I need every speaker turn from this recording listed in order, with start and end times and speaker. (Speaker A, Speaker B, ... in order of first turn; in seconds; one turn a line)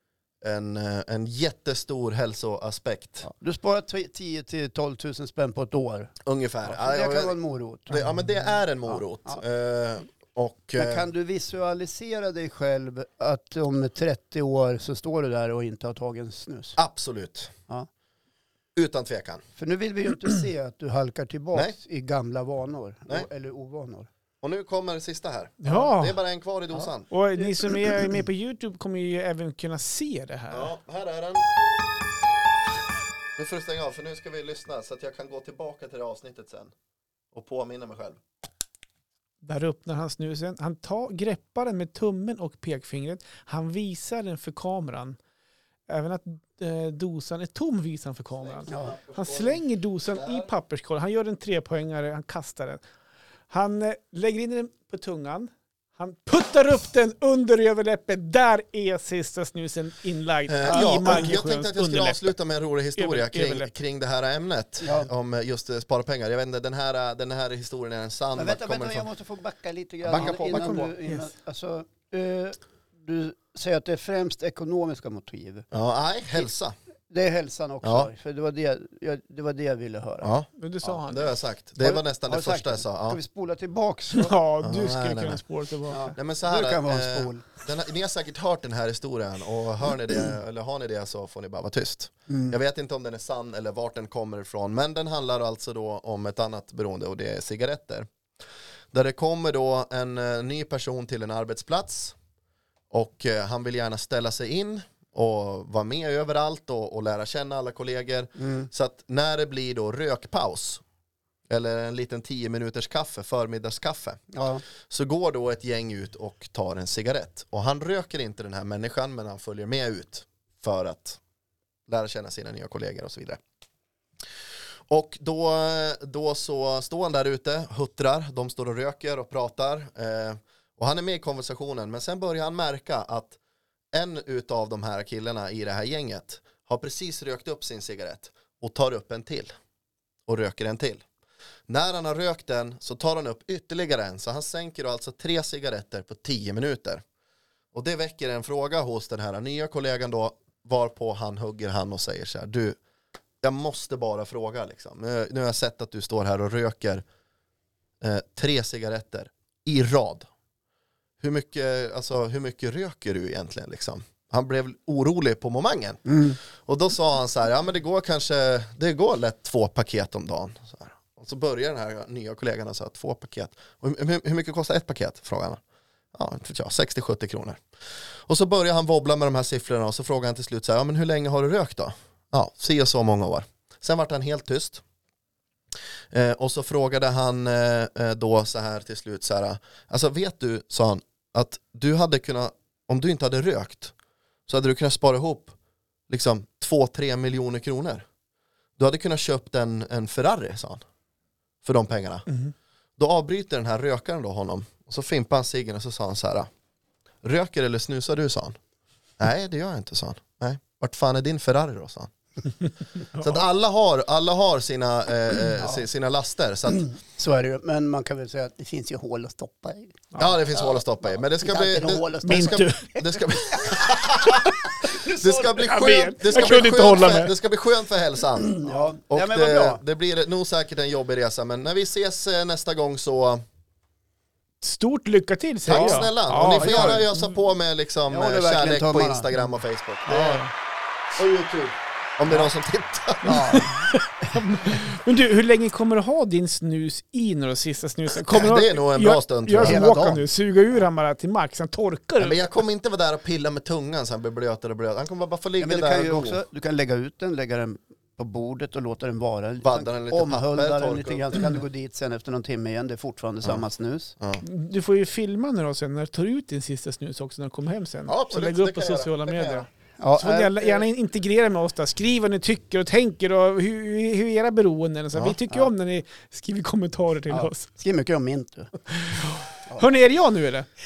Speaker A: 0.4-3.3
Speaker B: 3.2-6.2
Speaker A: 6.2-7.4
Speaker B: 6.7-8.0
Speaker A: 7.9-11.1
Speaker B: 8.9-9.4
Speaker B: 10.8-16.8
Speaker A: 16.8-17.5
Speaker A: 18.8-19.4
Speaker B: 19.6-24.1
Speaker A: 24.4-27.1
Speaker C: 25.6-26.2
Speaker C: 27.1-30.7
Speaker A: 30.5-31.5
Speaker A: 33.4-36.7
Speaker A: 37.3-38.2
Speaker C: 39.4-45.2
Speaker C: 45.9-52.8
Speaker A: 48.5-50.5
Speaker B: 48.7-49.0
Speaker C: 53.5-62.3
Speaker A: 60.5-69.0
Speaker B: 60.7-61.3
Speaker C: 63.0-63.7
Speaker B: 64.8-65.1
Speaker B: 68.4-75.7
Speaker A: 70.0-70.9
Speaker C: 70.2-71.3
Speaker A: 75.7-76.8
Speaker B: 77.1-80.3
Speaker A: 77.8-78.1
Speaker A: 80.2-83.2
Speaker C: 80.6-81.4
Speaker B: 81.8-84.3
Speaker C: 84.1-86.2
Speaker A: 84.6-85.4
Speaker B: 85.9-87.5
Speaker A: 86.2-98.1
Speaker B: 92.3-92.6
Speaker A: 98.9-102.2
Speaker A: 102.9-110.8
Speaker B: 108.4-108.7
Speaker A: 111.5-114.2
Speaker B: 114.3-114.6
Speaker A: 114.8-121.2
Speaker A: 121.9-123.4
Speaker A: 124.9-133.4
Speaker A: 133.9-139.5
Speaker A: 140.3-141.0
Speaker A: 141.7-147.0
Speaker A: 147.7-152.8
Speaker A: 153.4-157.1
Speaker A: 158.0-160.3
Speaker A: 161.2-175.6
Speaker B: 166.1-166.4
Speaker A: 176.1-177.6
Speaker A: 178.3-184.8
Speaker A: 186.1-193.9
Speaker A: 194.5-195.5
Speaker A: 196.1-198.1
Speaker A: 198.8-200.8
Speaker A: 201.6-202.3
Speaker A: 203.0-206.5
Speaker A: 207.2-208.6
Speaker A: 209.2-212.1
Speaker A: 213.2-216.9
Speaker B: 215.6-215.8
Speaker B: 216.8-220.8
Speaker A: 220.2-233.4
Speaker B: 221.4-225.7
Speaker C: 222.2-222.9
Speaker C: 225.5-227.3
Speaker B: 228.4-229.8
Speaker C: 234.6-237.3
Speaker A: 235.7-240.4
Speaker B: 235.7-237.1
Speaker B: 238.1-239.3
Speaker C: 240.1-240.5
Speaker A: 241.2-243.6
Speaker B: 243.2-244.4
Speaker C: 243.3-252.4
Speaker A: 248.1-249.9
Speaker B: 249.6-250.2
Speaker A: 252.2-256.4
Speaker B: 255.6-264.1
Speaker A: 259.6-261.4
Speaker C: 264.4-277.7
Speaker A: 268.1-269.7
Speaker B: 270.0-270.9
Speaker B: 277.3-278.7
Speaker C: 278.9-280.7